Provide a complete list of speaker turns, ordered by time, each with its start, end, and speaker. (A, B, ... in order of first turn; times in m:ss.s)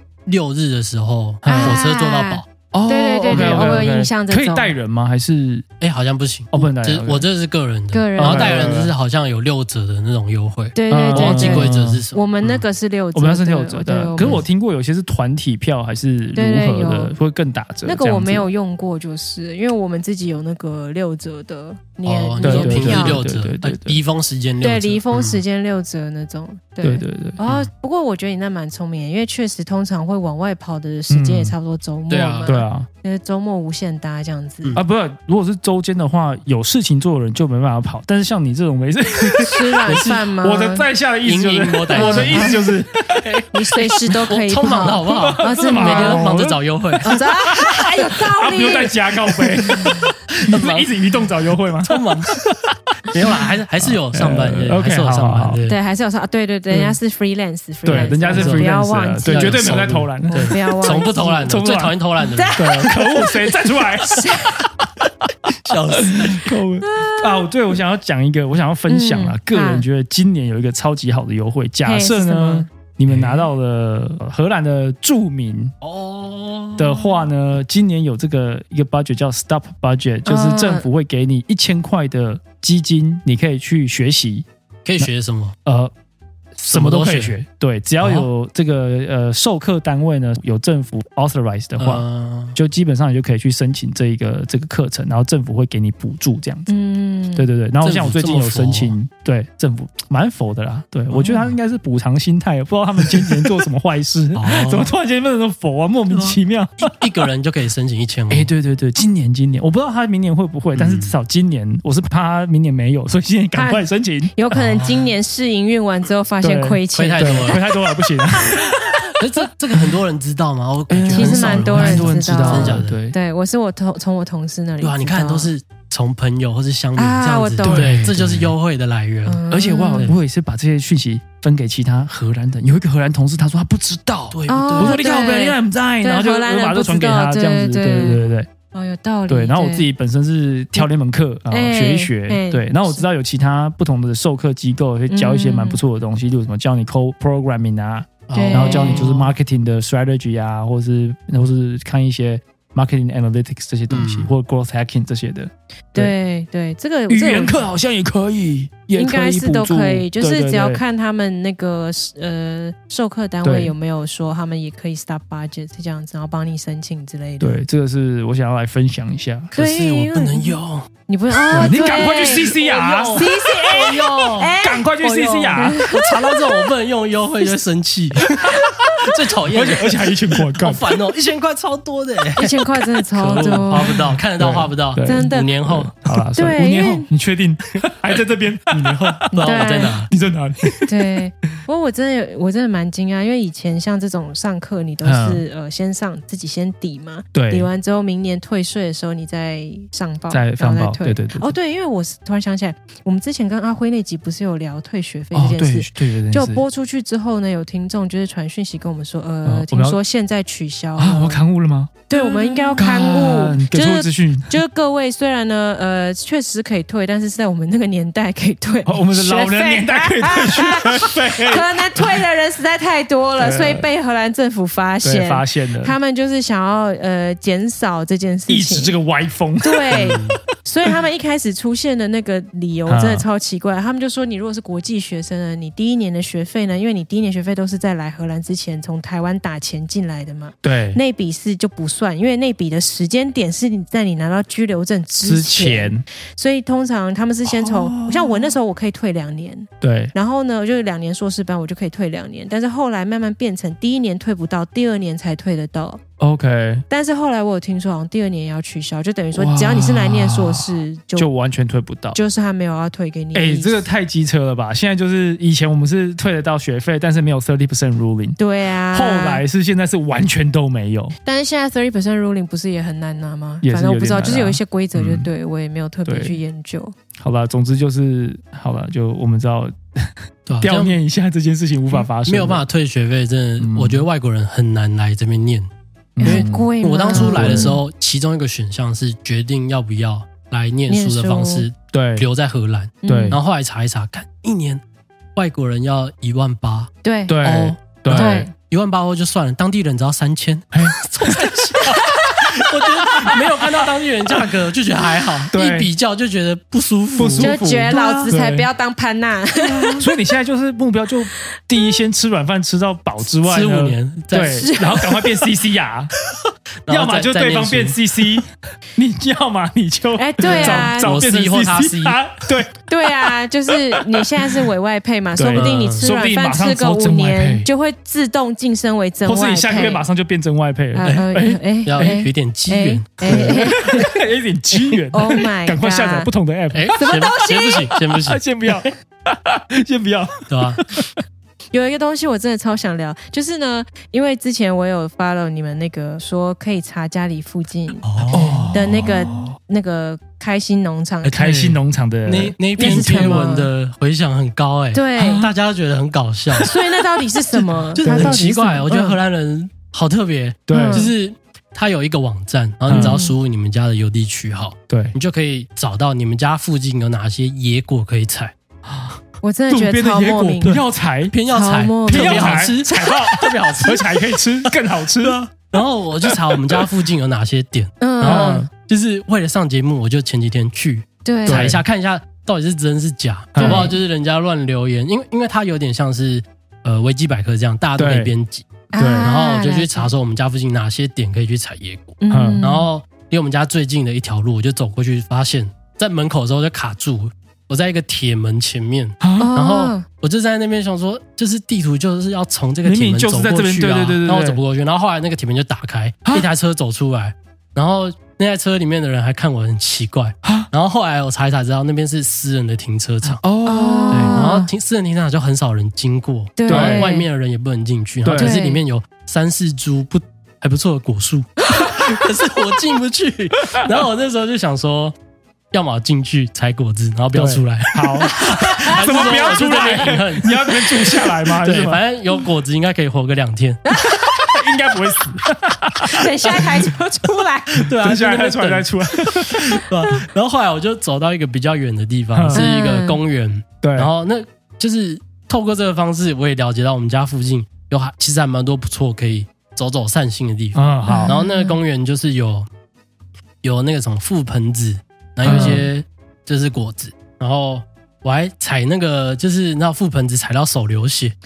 0:00.2-0:02.4 A
0:01.4-0:01.8 B
0:01.4-0:04.8 C
0:02.7-0:05.6 B
0:03.3-0:03.8 A
0:05.8-0:12.6 A
0:06.5-0:07.2 B
0:07.9-0:08.7 C
0:08.2-0:08.9 B
0:10.7-0:14.4 C
0:10.9-0:12.0 B
0:13.1-0:18.5 B
0:16.3-0:17.1 C
0:17.8-0:23.2 C
0:22.0-0:25.4 A
0:22.4-0:24.0 B
0:24.6-0:34.8 C
0:26.8-0:27.4 B
0:27.4-0:27.7 A
0:31.1-0:31.5 B
0:32.1-0:32.5 A
0:32.4-0:32.9 B
0:34.7-0:43.2 B
0:39.4-0:40.9 C
0:39.8-0:40.3 A
0:41.2-0:42.6 A
0:41.9-0:42.6 C
0:43.1-0:47.1 A
0:43.5-0:46.4 C
0:45.2-0:55.6 B
0:47.0-0:49.9 C
0:50.5-0:50.9 A
0:51.8-0:52.4 A
0:53.1-0:55.8 A
0:55.6-1:01.5 C
0:56.7-0:57.0 B
0:57.8-1:00.7 B
0:57.9-0:58.7 A
0:59.2-1:02.8 A
1:01.4-1:02.0 B
1:02.2-1:04.6 C
1:02.5-1:15.8 B
1:05.5-1:06.5 A
1:06.8-1:07.5 C
1:08.9-1:09.8 C
1:11.8-1:12.7 C
1:13.1-1:13.5 A
1:15.8-1:17.2 A
1:16.8-1:24.4 B
1:20.2-1:20.8 C
1:24.8-1:25.6 A
1:25.6-1:25.9 B
1:26.6-1:36.7 B
1:26.6-1:27.3 A
1:28.0-1:28.3 A
1:31.8-1:32.6 A
1:36.7-1:37.5 C
1:37.3-1:47.1 B
1:37.8-1:39.0 A
1:41.1-1:41.5 A
1:43.0-1:43.6 A
1:44.3-1:44.9 A
1:46.1-1:48.5 A
1:48.3-1:54.4 B
1:50.7-1:51.1 A
1:53.6-1:59.0 C
1:54.6-1:55.1 A
1:56.4-1:59.1 B
1:56.9-1:57.7 A
1:59.1-2:03.0 A
2:00.9-2:03.2 B
2:01.1-2:05.5 C
2:04.8-2:09.4 A
2:07.0-2:08.1 C
2:07.6-2:08.5 B
2:09.2-2:10.1 C
2:09.5-2:18.5 B
2:14.3-2:15.0 A
2:14.5-2:19.9 C
2:18.0-2:18.4 A
2:19.3-2:36.1 B
2:21.5-2:23.0 C
2:25.1-2:25.8 C
2:28.3-2:29.3 A
2:28.3-2:29.2 C
2:33.9-2:34.3 A
2:35.9-2:37.6 C
2:37.1-2:40.8 B
2:39.0-2:47.6 C
2:43.4-2:43.7 B
2:47.4-2:49.5 B
2:49.5-2:54.6 A
2:49.6-2:50.6 C
2:51.1-2:56.5 C
2:51.5-2:53.2 B
2:54.6-2:55.8 B
2:55.5-3:06.0 A
2:58.4-3:00.9 B
3:02.4-3:04.1 C
3:03.7-3:11.6 B
3:05.0-3:05.6 C
3:06.3-3:07.1 C
3:07.8-3:08.2 A
3:08.7-3:10.1 A
3:09.3-3:10.0 C
3:10.9-3:31.4 C
3:15.0-3:15.4 B
3:17.3-3:17.7 B
3:20.3-3:21.5 B
3:25.3-3:26.6 B
3:29.4-3:30.0 B
3:31.0-3:34.6 B
3:32.1-3:49.0 C
3:38.8-3:42.2 B
3:43.4-3:43.9 B
3:45.0-3:45.9 B
3:48.5-3:50.2 B
3:49.6-4:16.0 C
3:49.9-3:50.4 A
3:52.9-3:53.2 B
4:00.6-4:01.0 B
4:05.2-4:06.0 B
4:07.5-4:08.5 B
4:09.8-4:10.1 B
4:16.2-4:16.8 B
4:16.9-4:21.3 C
4:19.3-4:22.2 B
4:22.1-4:23.8 C
4:23.3-4:28.4 B
4:28.4-4:29.4 C
4:28.9-4:31.1 B
4:31.2-4:36.9 C
4:33.6-4:35.3 B
4:36.1-4:36.4 B
4:37.2-4:42.6 B
4:40.4-4:41.0 A
4:41.9-4:45.7 A
4:43.6-4:44.0 B
4:46.2-4:47.8 B
4:46.2-4:47.8 C
4:46.2-4:54.8 A
4:50.9-4:51.6 C
4:51.9-4:52.2 B
4:53.0-4:53.4 C
4:53.0-4:53.4 B
4:55.3-4:56.9 A
4:57.0-4:57.5 C
4:57.3-4:58.5 B
4:57.4-5:08.3 A
4:58.1-4:58.5 C
5:00.7-5:01.4 B
5:01.8-5:02.5 C
5:03.2-5:03.8 B
5:05.5-5:05.9 B
5:07.2-5:08.7 B
5:07.4-5:10.1 C
5:09.6-5:16.1 B
5:13.4-5:15.1 A
5:14.4-5:15.2 C
5:16.8-5:18.4 A
5:16.9-5:24.6 B
5:20.2-5:21.2 C
5:20.4-5:22.4 A
5:22.9-5:30.0 C
5:25.3-5:27.7 B
5:25.5-5:26.1 A
5:29.2-5:32.2 B
5:30.9-5:34.2 C
5:31.0-5:31.3 A
5:31.8-5:34.1 A
5:33.2-5:37.0 B
5:35.1-5:36.3 C
5:36.7-5:38.8 A
5:36.9-5:38.0 C
5:38.2-5:41.1 B
5:40.5-5:40.8 A
5:41.7-5:51.5 C
5:48.0-5:49.1 A
5:48.3-5:49.5 B
5:51.2-5:53.4 B
5:51.3-5:56.8 A
5:52.8-5:53.7 C
5:54.9-5:55.5 C
5:56.6-5:59.2 C
5:57.9-6:08.5 A
5:58.0-5:58.5 B
6:00.7-6:01.1 B
6:00.7-6:01.1 C
6:02.9-6:03.2 B
6:02.9-6:03.3 C
6:04.9-6:05.1 B
6:08.9-6:09.2 B
6:09.4-6:10.8 C
6:09.7-6:11.3 B
6:10.6-6:53.4 A
6:11.5-6:13.2 C
6:12.0-6:15.4 B
6:16.2-6:16.8 B
6:18.0-6:18.6 C
6:18.2-6:18.7 B
6:21.2-6:21.7 C
6:21.4-6:21.8 B
6:23.5-6:23.9 B
6:23.6-6:24.0 C
6:28.0-6:28.3 B
6:28.9-6:30.1 C
6:28.9-6:29.3 B
6:32.2-6:32.9 C
6:32.3-6:32.6 B
6:39.2-6:39.5 B
6:39.4-6:40.0 C
6:42.8-6:44.6 B
6:53.2-6:54.5 B
6:53.6-6:54.7 C
6:54.1-7:05.2 A
6:56.6-6:57.2 C
6:56.7-6:57.1 B
6:58.2-6:58.6 B
6:58.3-6:58.8 C
7:05.7-7:13.8 A
7:07.3-7:12.0 B
7:08.2-7:09.9 C
7:13.9-7:14.6 C
7:14.4-7:16.7 B
7:16.0-7:17.9 C
7:17.7-7:32.7 A
7:17.7-7:19.9 B
7:22.3-7:22.6 B
7:22.5-7:23.2 C
7:23.8-7:24.1 B
7:30.7-7:31.4 B
7:31.0-7:31.8 C
7:33.6-7:41.4 A
7:35.4-7:35.9 B
7:35.4-7:35.8 C